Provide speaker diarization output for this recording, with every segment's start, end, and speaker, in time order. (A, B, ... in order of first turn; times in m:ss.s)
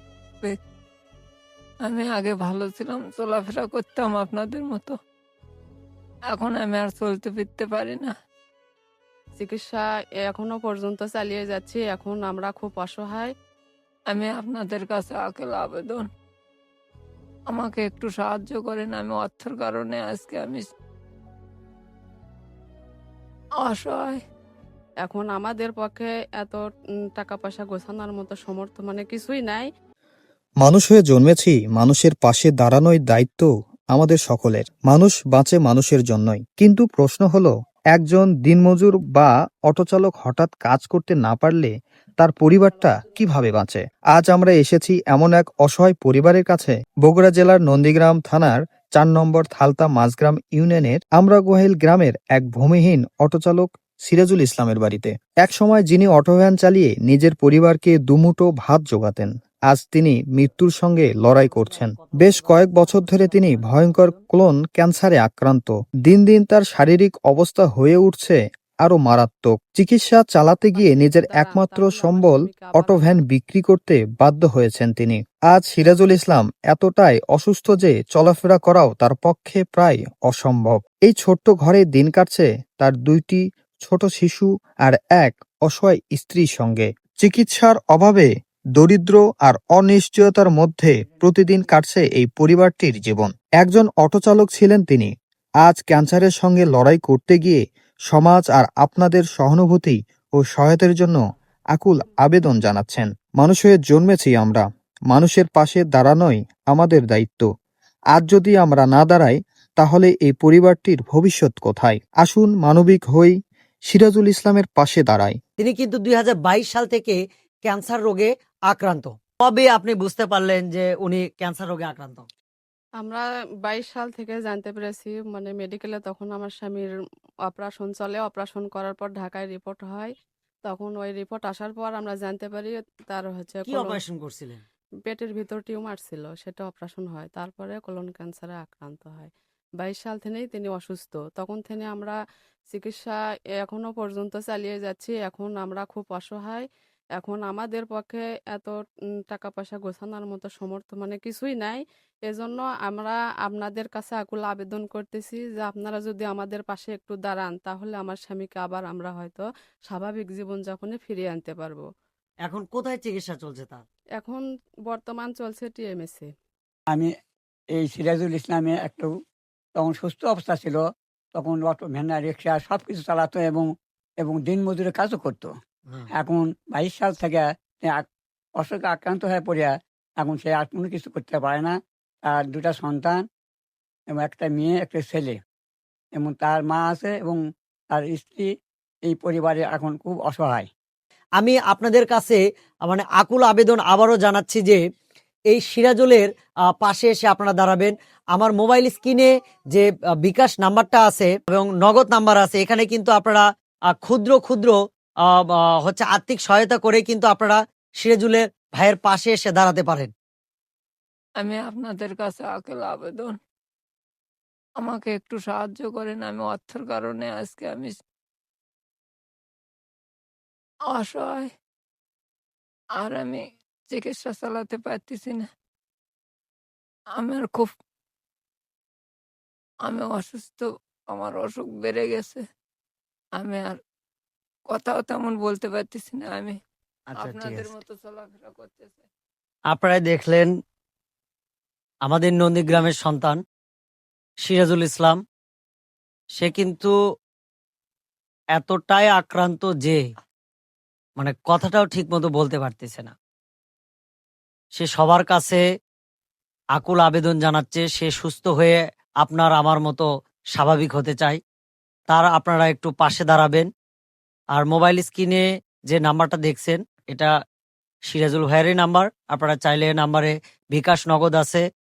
0:01.8-0:04.9 A
0:06.3-0:08.1 A
0:09.4-0:13.3 B
0:14.1-0:16.0 A
0:17.5-0:20.7 A
0:23.6-0:24.2 A
0:25.0-0:29.7 B
0:30.6-1:35.1 C
1:01.2-1:04.2 D
1:10.8-1:13.2 B
1:31.0-1:31.5 E
1:35.6-1:41.2 C
1:41.7-1:47.5 C
1:48.1-1:53.3 C
1:53.9-1:55.4 C
1:55.6-2:02.3 D
2:03.0-2:06.9 B
2:07.5-2:10.1 B
2:10.6-2:14.0 B
2:13.6-2:14.6 D
2:15.1-2:22.1 B
2:22.7-2:26.6 B
2:27.2-2:28.8 B
2:29.3-2:41.8 B
2:42.4-2:43.8 D
2:44.2-2:46.3 B
2:47.8-2:49.1 E
2:49.8-2:50.8 E
2:51.3-2:53.6 E
2:54.2-2:55.5 E
2:56.1-2:58.0 E
2:58.6-3:03.2 E
3:04.1-3:05.4 E
3:06.2-3:07.4 E
3:07.9-3:08.4 E
3:09.1-3:10.7 E
3:11.4-3:14.8 D
3:15.5-3:24.8 D
3:25.3-3:30.1 D
3:31.4-3:33.4 A
3:34.8-3:38.0 A
3:40.9-3:41.5 A
3:43.0-3:45.5 A
3:47.1-3:47.7 A
3:49.8-3:52.4 A
3:53.4-3:53.8 A
3:54.7-3:56.6 A
3:57.1-3:57.7 D
3:57.2-3:59.0 A
3:59.7-4:00.5 D
4:02.0-4:03.4 D
4:04.4-4:05.2 D
4:06.3-4:06.9 D
4:08.6-4:10.0 D
4:11.2-4:13.1 D
4:14.7-4:15.6 D
4:16.7-4:21.4 D
4:22.1-4:23.7 D
4:24.5-4:27.3 D
4:28.1-4:31.6 D